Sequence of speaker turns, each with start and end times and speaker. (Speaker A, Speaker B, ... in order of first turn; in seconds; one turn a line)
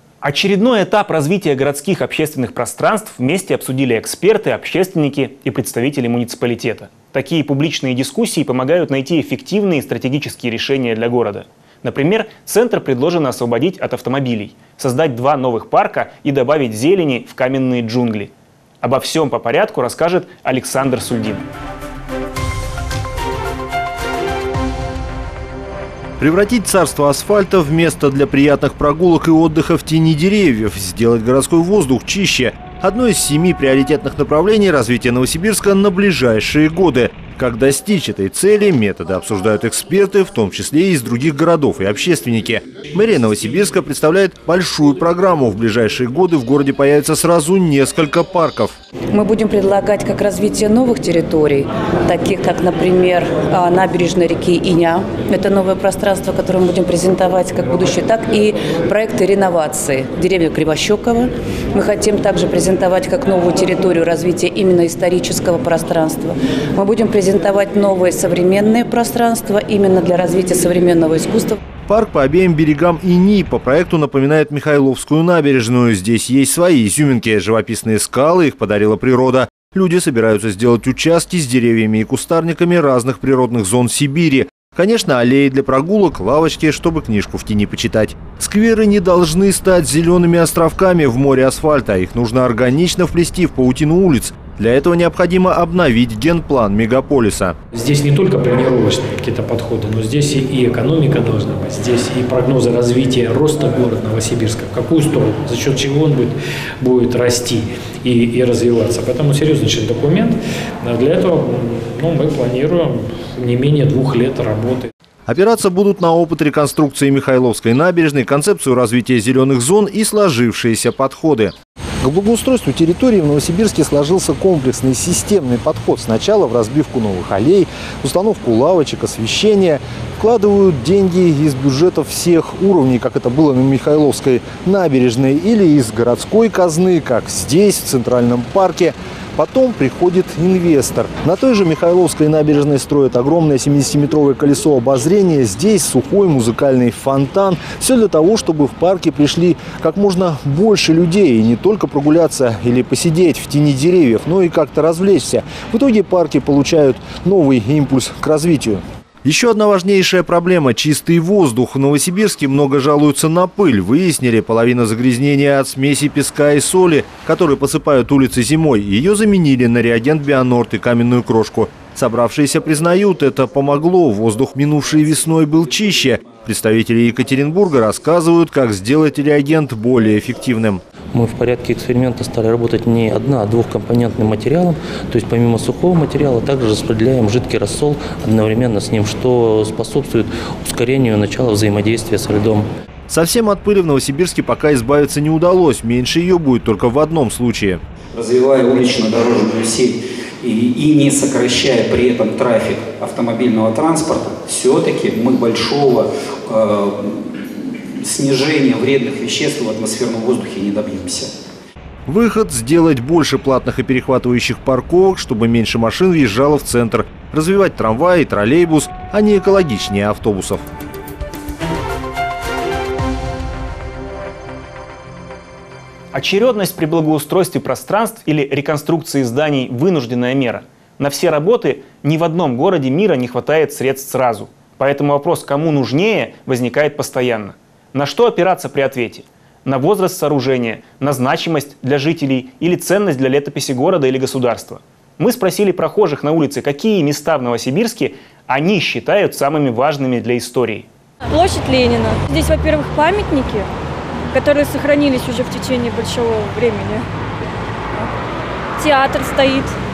Speaker A: 0.2-21.4
Speaker B: 26.2-48.8
Speaker C: 49.1-61.2
Speaker C: 61.8-71.5
Speaker B: 71.9-97.5
Speaker D: 97.7-114.9
Speaker B: 115.3-180.8
Speaker E: 181.1-192.7
Speaker B: 193.1-197.8
Speaker F: 198.2-207.0
Speaker F: 208.0-211.3
Speaker B: 212.1-220.6
Speaker A: 226.1-250.9
Speaker G: 251.3-253.7
Speaker G: 254.3-257.1
Speaker G: 258.8-259.7